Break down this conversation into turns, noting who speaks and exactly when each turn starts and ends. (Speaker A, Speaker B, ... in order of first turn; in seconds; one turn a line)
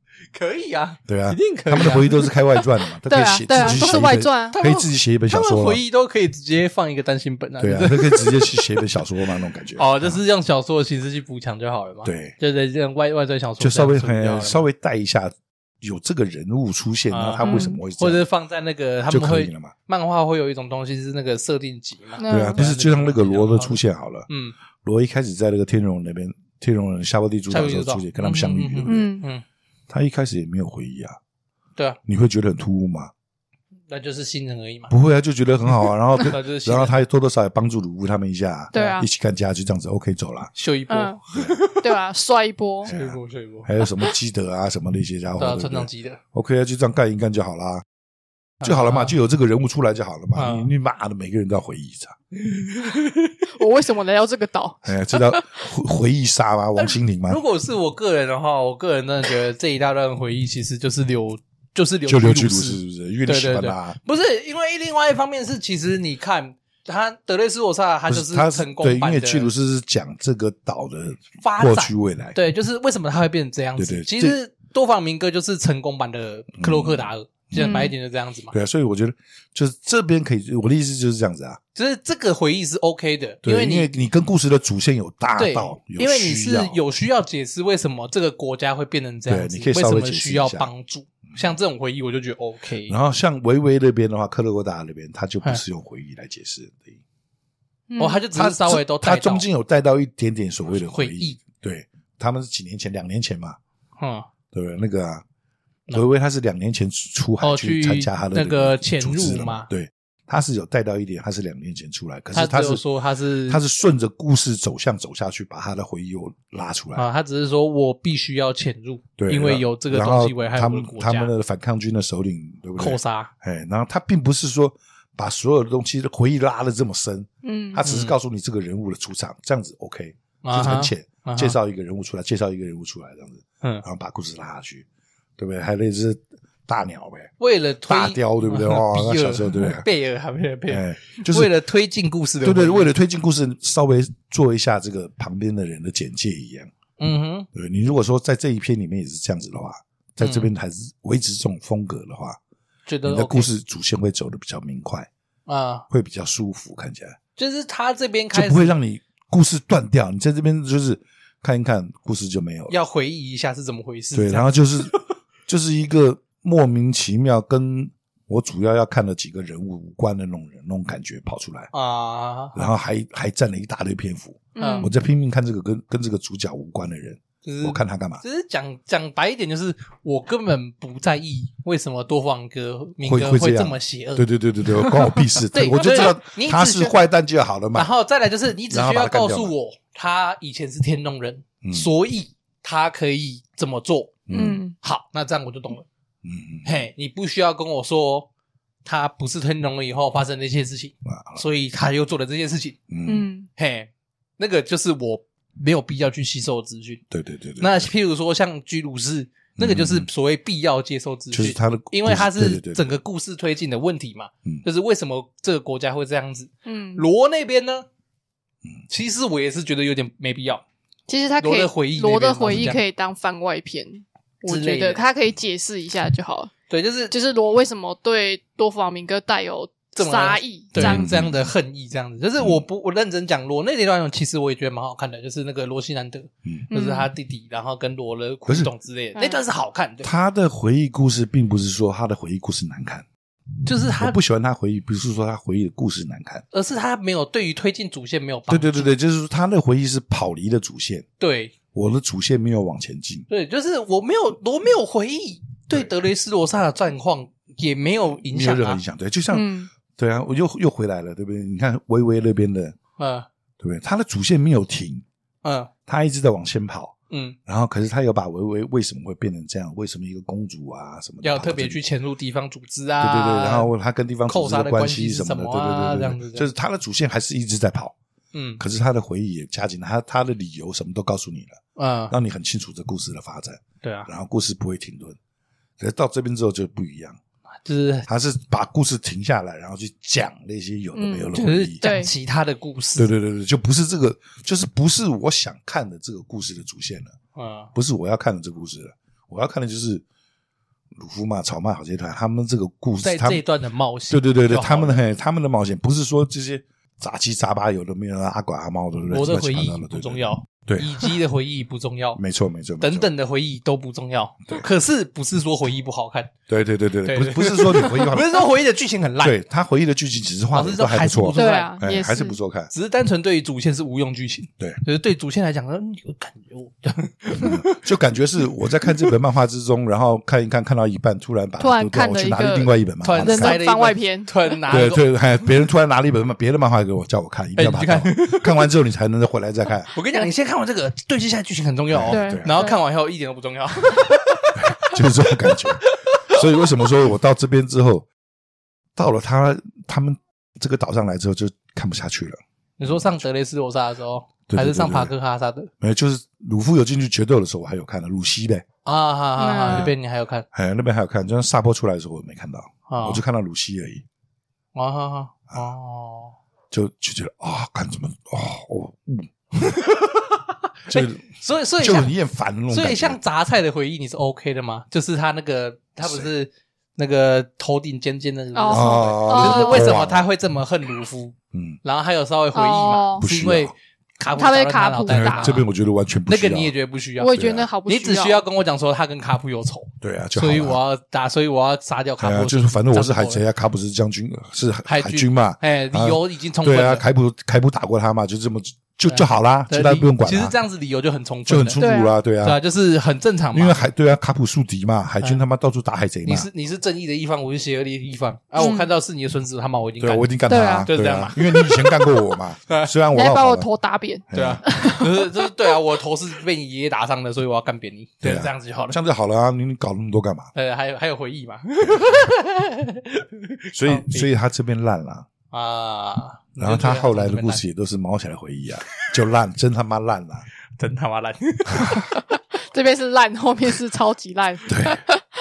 Speaker A: 0.3-2.3
Speaker B: 1.1-5.8
Speaker C: 3.1-4.6
Speaker A: 3.5-8.8
Speaker B: 7.6-10.2
Speaker A: 9.8-14.6
Speaker B: 12.0-12.3
Speaker B: 13.6-18.2
Speaker A: 17.1-24.5
Speaker C: 17.4-17.8
Speaker B: 19.1-19.7
Speaker C: 22.2-22.6
Speaker B: 22.3-24.3
Speaker B: 24.8-29.1
Speaker A: 27.5-29.4
Speaker C: 28.9-29.2
Speaker B: 29.9-31.2
Speaker B: 32.0-33.1
Speaker A: 33.9-34.9
Speaker B: 34.9-40.5
Speaker A: 36.1-37.0
Speaker C: 38.7-39.0
Speaker A: 40.5-41.9
Speaker C: 40.9-41.2
Speaker C: 41.7-42.9
Speaker A: 42.8-43.7
Speaker B: 42.8-47.8
Speaker A: 45.4-46.2
Speaker A: 48.6-49.1
Speaker B: 48.6-52.1
Speaker A: 50.3-50.7
Speaker A: 52.3-53.4
Speaker C: 53.5-55.5
Speaker B: 54.8-57.4
Speaker A: 56.8-69.5
Speaker B: 62.1-64.0
Speaker B: 68.1-72.4
Speaker A: 71.4-78.5
Speaker B: 73.8-74.4
Speaker B: 76.6-77.9
Speaker C: 77.5-77.9
Speaker B: 78.5-81.6
Speaker A: 81.7-83.9
Speaker B: 83.4-86.8
Speaker A: 85.4-93.0
Speaker B: 89.3-90.7
Speaker B: 92.9-97.0
Speaker C: 97.9-98.2
Speaker A: 98.0-99.5
Speaker B: 98.3-103.6
Speaker A: 100.9-101.4
Speaker A: 104.0-104.3
Speaker B: 104.5-105.2
Speaker B: 105.9-112.8
Speaker A: 107.4-109.7
Speaker A: 112.3-113.6
Speaker B: 113.5-117.0
Speaker A: 116.9-121.3
Speaker B: 119.2-134.8
Speaker A: 122.8-123.3
Speaker C: 127.4-127.8
Speaker A: 127.8-128.1
Speaker A: 130.4-131.6
Speaker B: 135.4-137.3
Speaker A: 137.4-142.9
Speaker B: 137.8-139.8
Speaker B: 140.7-141.5
Speaker B: 142.4-146.7
Speaker A: 147.0-147.5
Speaker B: 147.5-152.4
Speaker A: 150.2-150.5
Speaker A: 152.9-153.5
Speaker B: 153.0-155.1
Speaker A: 155.4-155.8
Speaker B: 155.9-157.2
Speaker A: 157.4-158.7
Speaker B: 158.3-162.7
Speaker A: 162.7-165.0
Speaker B: 164.1-164.9
Speaker B: 165.5-171.7
Speaker A: 171.7-172.6
Speaker B: 172.5-178.2
Speaker C: 174.6-174.9
Speaker A: 174.6-174.9
Speaker A: 177.4-184.3
Speaker B: 183.0-187.9
Speaker A: 185.5-187.0
Speaker A: 187.7-194.3
Speaker B: 188.7-189.5
Speaker B: 191.6-191.9
Speaker B: 194.3-194.6
Speaker C: 194.3-194.7
Speaker A: 194.8-195.8
Speaker B: 196.2-196.7
Speaker A: 196.6-198.3
Speaker A: 198.8-202.8
Speaker B: 201.0-201.4
Speaker B: 202.9-203.3
Speaker C: 203.0-203.5
Speaker A: 203.6-207.0
Speaker B: 207.1-207.9
Speaker A: 207.6-217.9
Speaker B: 209.6-210.1
Speaker B: 211.3-212.9
Speaker C: 216.6-217.1
Speaker A: 218.9-220.6
Speaker C: 221.1-226.5
Speaker A: 221.4-222.8
Speaker A: 224.4-225.0
Speaker A: 226.7-227.1
Speaker C: 227.1-231.1
Speaker A: 229.9-240.1
Speaker B: 230.8-231.3
Speaker C: 236.7-237.1
Speaker B: 240.0-243.1
Speaker A: 243.6-244.2
Speaker B: 244.0-246.4
Speaker A: 246.5-248.9
Speaker B: 248.5-251.1
Speaker A: 251.2-251.5
Speaker B: 251.7-253.2
Speaker A: 253.3-258.8
Speaker B: 258.2-262.8
Speaker C: 259.3-259.7
Speaker A: 263.0-263.3
Speaker B: 263.6-265.0
Speaker A: 265.4-265.7
Speaker B: 265.9-271.8
Speaker A: 267.1-267.4
Speaker A: 271.2-273.7
Speaker B: 273.0-277.9
Speaker A: 274.3-276.5
Speaker A: 278.3-278.6
Speaker B: 278.6-285.2
Speaker A: 281.8-282.1
Speaker A: 283.8-284.1
Speaker B: 285.8-287.2
Speaker A: 287.6-288.1
Speaker B: 288.1-291.8
Speaker C: 290.9-292.1
Speaker A: 291.3-293.1
Speaker B: 293.0-297.1
Speaker A: 297.3-297.7
Speaker B: 297.7-300.0
Speaker B: 300.9-303.4
Speaker A: 303.0-305.0
Speaker B: 304.1-311.1
Speaker A: 309.1-312.2
Speaker B: 312.2-313.1
Speaker A: 312.8-316.3
Speaker B: 316.5-318.4
Speaker A: 317.0-319.4
Speaker B: 319.2-322.7
Speaker A: 320.5-321.7
Speaker C: 321.3-322.4
Speaker A: 322.7-327.8
Speaker B: 327.4-333.6
Speaker C: 331.6-334.6
Speaker A: 333.0-335.1
Speaker B: 334.7-339.9
Speaker A: 337.6-338.6
Speaker A: 339.9-346.4
Speaker B: 341.9-342.5
Speaker C: 342.1-342.8
Speaker B: 344.5-348.1
Speaker B: 348.9-353.2
Speaker A: 352.8-355.7
Speaker B: 354.5-355.1
Speaker B: 355.8-358.6
Speaker A: 358.8-360.4
Speaker C: 359.4-359.9
Speaker B: 359.7-359.9
Speaker B: 360.5-364.0
Speaker A: 362.9-363.2
Speaker A: 364.7-366.4
Speaker B: 366.7-369.7
Speaker A: 369.6-372.1
Speaker B: 370.9-371.2
Speaker B: 371.8-373.2
Speaker A: 372.7-385.6
Speaker C: 378.5-379.9
Speaker B: 378.7-380.3
Speaker B: 381.5-381.8
Speaker C: 382.5-383.3
Speaker B: 383.2-383.7
Speaker C: 384.3-385.6
Speaker B: 385.1-386.7
Speaker A: 386.3-393.4
Speaker C: 387.2-388.4
Speaker B: 387.3-387.7
Speaker B: 390.0-390.8
Speaker B: 392.2-400.6
Speaker A: 394.8-397.0
Speaker A: 399.1-401.8
Speaker B: 401.5-402.6
Speaker C: 401.8-402.1
Speaker A: 402.4-403.9
Speaker B: 403.5-406.5
Speaker A: 406.2-411.4
Speaker C: 408.6-408.9
Speaker B: 410.0-413.7
Speaker C: 410.5-412.0
Speaker A: 412.7-412.9
Speaker C: 413.1-415.5
Speaker B: 414.3-414.9
Speaker A: 414.3-419.0
Speaker B: 418.2-420.5
Speaker A: 420.5-424.3
Speaker B: 421.8-422.1
Speaker B: 423.7-425.3
Speaker A: 425.5-427.6
Speaker B: 426.6-430.4
Speaker A: 430.8-432.2
Speaker C: 431.9-435.2
Speaker B: 434.7-435.0